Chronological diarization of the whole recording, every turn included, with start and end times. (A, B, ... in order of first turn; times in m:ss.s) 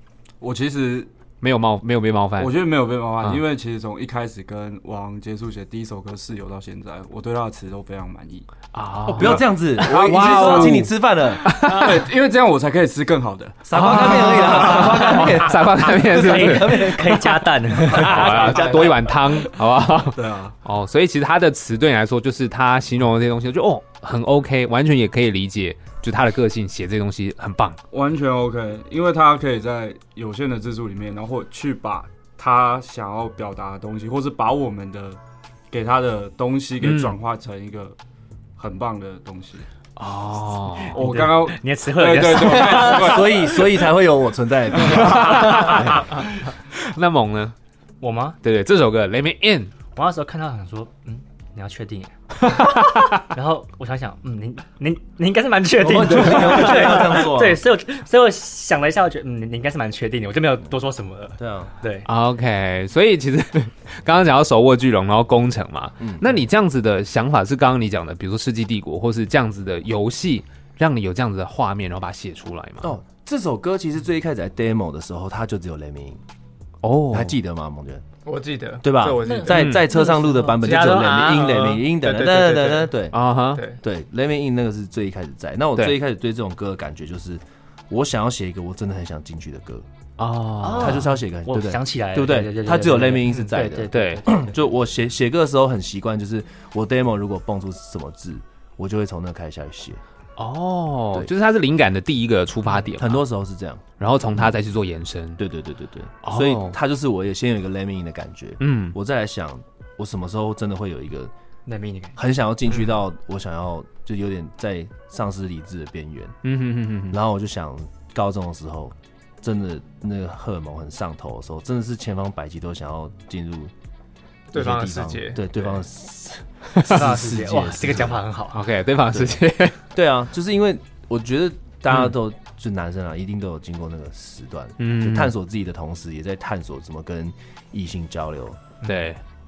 0:00.4-0:01.1 A
0:01.4-0:02.6 B
0:02.4-0:08.5 A
0:08.7-0:10.9 B
0:09.1-0:10.9 A
0:09.1-0:11.5 C
0:11.4-0:12.1 B
0:11.5-0:14.8 A
0:13.6-0:19.0 C
0:13.7-0:17.0 B
0:16.1-0:19.2 D
0:17.8-0:27.8 B
0:18.3-0:19.0 E
0:20.1-0:20.6 A
0:27.9-0:38.0 A
0:36.8-0:37.2 B
0:38.6-0:39.7 A
0:40.0-0:41.1 B
0:40.8-0:43.4 D
0:40.9-0:43.7 A
0:42.4-0:46.1 C
0:44.8-0:47.6 B
0:48.0-0:48.4 D
0:48.4-0:49.8 B
0:49.9-1:02.1 D
0:52.4-0:53.2 B
0:55.8-0:57.6 C
1:01.4-1:01.7 C
1:02.0-1:12.9 B
1:06.0-1:06.4 C
1:12.8-1:16.2 C
1:16.8-1:17.4 B
1:17.1-1:18.0 C
1:18.2-1:22.9 E
1:18.8-1:23.2 C
1:19.2-1:20.4 D
1:19.5-1:19.9 B
1:23.1-1:23.6 B
1:23.5-1:23.8 E
1:23.8-1:29.9 C
1:30.2-1:31.1 B
1:30.6-1:34.5 D
1:30.7-1:40.0 C
1:33.6-1:34.3 B
1:40.4-1:43.2 B
1:43.0-1:43.8 C
1:44.0-1:45.4 B
1:45.4-1:51.3 C
1:46.2-1:46.8 B
1:48.6-1:49.0 B
1:51.7-1:52.2 D
1:52.2-1:56.4 C
1:56.4-1:57.2 B
1:57.1-2:03.7 C
2:04.5-2:05.8 E
2:04.5-2:08.2 C
2:06.8-2:07.0 B
2:06.9-2:08.6 D
2:08.5-2:09.8 B
2:09.1-2:09.4 C
2:09.9-2:18.7 C
2:14.8-2:15.3 B
2:18.8-2:19.2 B